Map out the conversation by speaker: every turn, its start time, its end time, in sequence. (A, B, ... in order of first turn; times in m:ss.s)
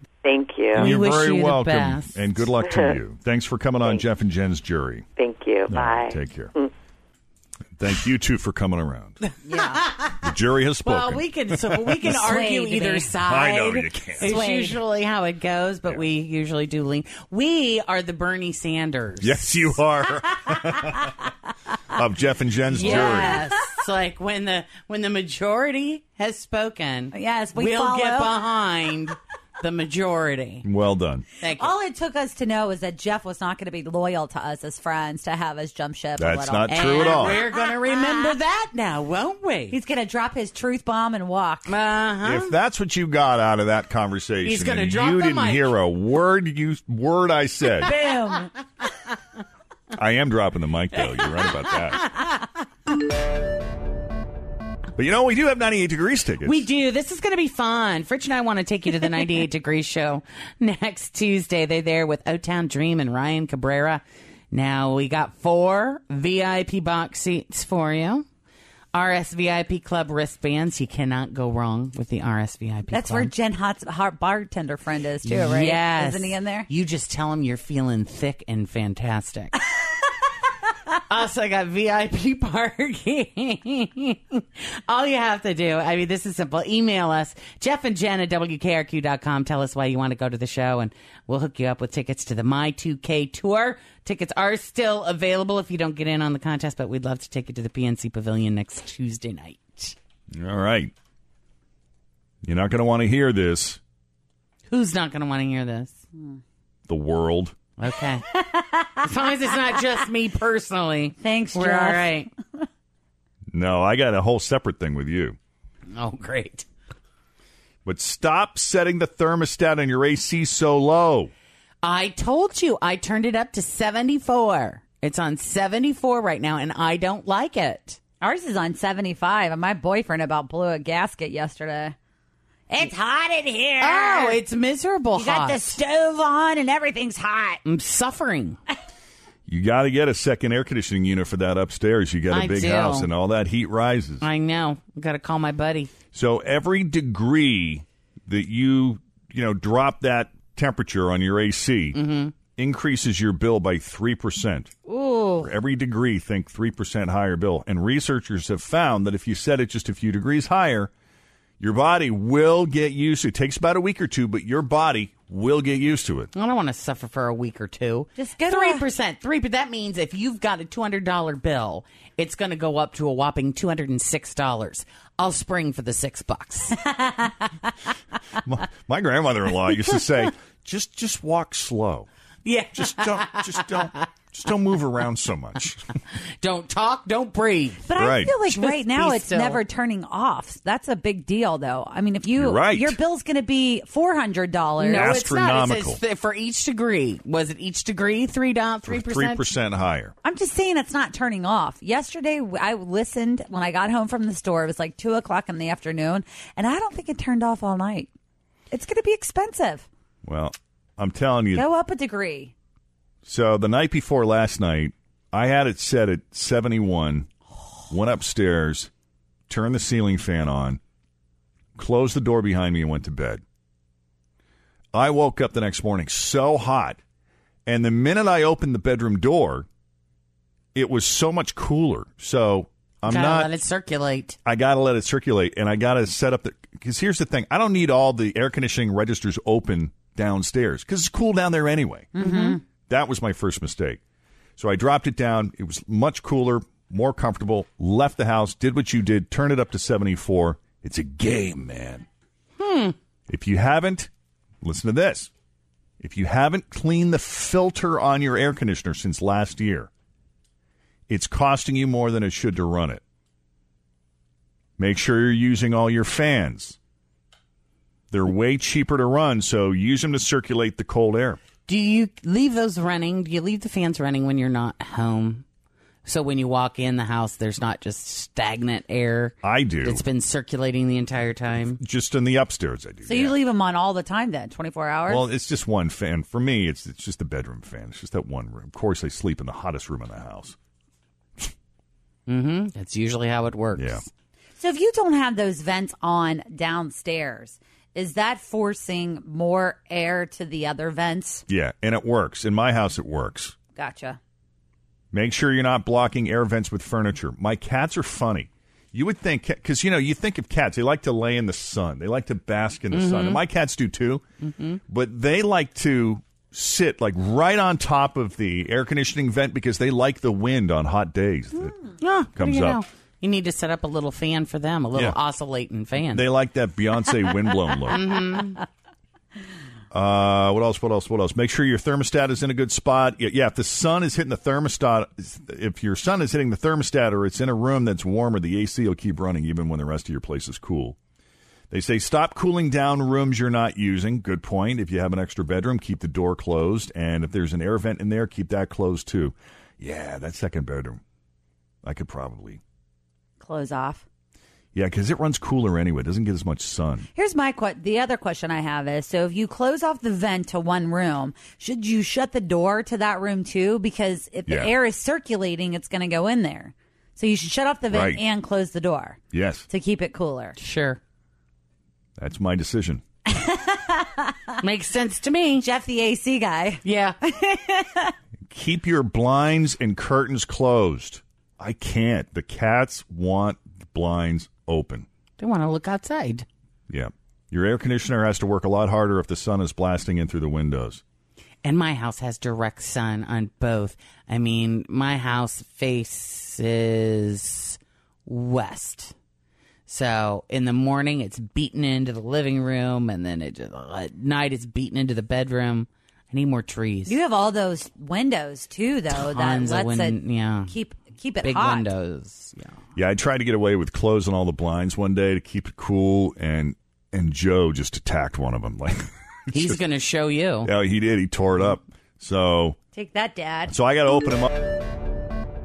0:00.2-0:01.0 A
0:00.7-0:05.0 B
0:00.8-0:02.1 C
0:02.7-0:02.9 A
0:05.2-0:06.7 A
0:05.7-0:06.5 B
0:07.8-0:09.2 B
0:09.5-0:09.8 D
0:09.6-0:10.3 C
0:10.2-0:12.4 B
0:10.8-0:19.8 C
0:12.1-0:13.1 D
0:13.2-0:14.4 B
0:14.2-0:14.8 D
0:19.2-0:21.1 B
0:21.9-0:23.4 B
0:22.7-0:30.6 C
0:22.8-0:23.5 D
0:27.1-0:28.3 D
0:30.6-0:31.3 B
0:31.4-0:31.7 C
0:31.6-0:38.4 D
0:36.2-0:37.4 B
0:36.7-0:39.8 C
0:39.7-0:41.7 D
0:41.7-0:42.5 C
0:42.2-0:47.9 B
0:44.4-0:45.7 C
0:47.8-0:48.5 D
0:48.0-0:48.5 C
0:49.9-0:52.1 B
0:55.0-0:56.7 B
0:56.4-1:08.2 C
1:08.9-1:13.3 C
1:12.9-1:16.7 D
1:15.2-1:19.6 C
1:21.1-1:40.0 C
1:40.3-1:40.9 B
1:42.4-1:43.8 B
1:44.7-1:46.0 C
1:46.2-1:46.4 D
1:46.9-1:47.6 B
1:47.8-1:48.2 C
1:48.3-1:49.1 D
1:49.0-1:52.3 C
1:51.2-1:52.6 D
1:53.5-1:55.4 B
1:55.9-1:56.7 C
1:57.8-2:01.3 B
2:01.8-2:08.0 C
2:08.2-2:12.0 D
2:12.7-2:14.4 D
2:13.8-2:15.8 C
2:15.2-2:17.6 D
2:17.6-2:18.6 C
2:19.5-2:24.2 B
2:22.3-2:23.1 C
2:24.2-2:25.9 C
2:26.1-2:32.0 B
2:31.9-2:32.4 C
2:32.6-2:34.7 B
2:34.9-2:35.5 D
2:35.4-2:40.9 B
2:41.6-2:46.3 B
2:46.3-2:56.9 C
2:48.2-2:48.8 D
2:56.8-2:57.3 D
2:58.4-3:02.1 B
3:02.4-3:04.1 C
3:02.7-3:05.8 B
3:06.4-3:09.6 C
3:07.9-3:15.1 D
3:08.0-3:08.3 B
3:12.4-3:13.0 B
3:14.8-3:19.5 C
3:15.0-3:16.0 B
3:18.9-3:20.1 B
3:20.2-3:28.1 D
3:28.7-3:29.9 D
3:30.2-3:31.7 B
3:31.5-3:32.5 D
3:33.2-3:37.3 B
3:37.9-3:38.9 B
3:39.5-3:40.8 B
3:41.8-3:43.4 B
3:44.9-3:47.0 B
3:47.7-3:49.7 B
3:50.8-3:53.5 B
3:53.1-3:54.4 C
3:54.4-4:02.2 B
4:02.2-4:02.6 D
4:02.9-4:04.0 B
4:04.6-4:12.1 B
4:12.6-4:13.0 C
4:13.3-4:14.1 B
4:14.6-4:15.3 B
4:16.0-4:19.9 B
4:21.1-4:23.0 B
4:24.8-4:26.8 B
4:28.1-4:31.4 B
4:31.7-4:35.4 C
4:36.0-4:41.8 C
4:39.4-4:40.0 B
4:41.8-4:43.4 B
4:43.0-4:45.2 D
4:45.1-4:50.6 B
4:52.3-4:54.0 C
4:53.8-4:54.0 B
4:54.6-5:01.4 D
5:01.5-5:03.6 B
5:03.8-5:04.2 D
5:05.1-5:14.2 B
5:12.9-5:13.4 C
5:14.4-5:14.8 C
5:14.9-5:21.8 B
5:22.0-5:26.3 C
5:22.4-5:22.8 B
5:26.1-5:28.1 B
5:27.9-5:28.6 C
5:29.9-5:41.0 B
5:41.7-5:51.0 B
5:51.8-5:52.6 B
5:53.4-5:54.0 D
5:54.8-5:57.1 B
5:57.2-6:10.6 D
6:04.5-6:04.7 B
6:07.9-6:08.2 B
6:09.3-6:09.7 B
6:10.6-6:11.0 C
6:12.2-6:13.0 B
6:13.3-6:14.6 D
6:14.6-6:15.6 C
6:15.6-6:18.1 D
6:16.8-6:17.2 C
6:18.5-6:25.1 B
6:25.4-6:26.5 C
6:26.9-6:31.0 B
6:31.6-6:39.1 C
6:39.9-6:47.2 C
6:47.1-6:51.9 D
6:49.2-6:50.7 C
6:51.4-6:52.8 C
6:53.0-6:59.8 B
6:59.5-7:00.7 C
7:00.6-7:02.8 B
7:02.9-7:03.7 D
7:03.7-7:04.7 B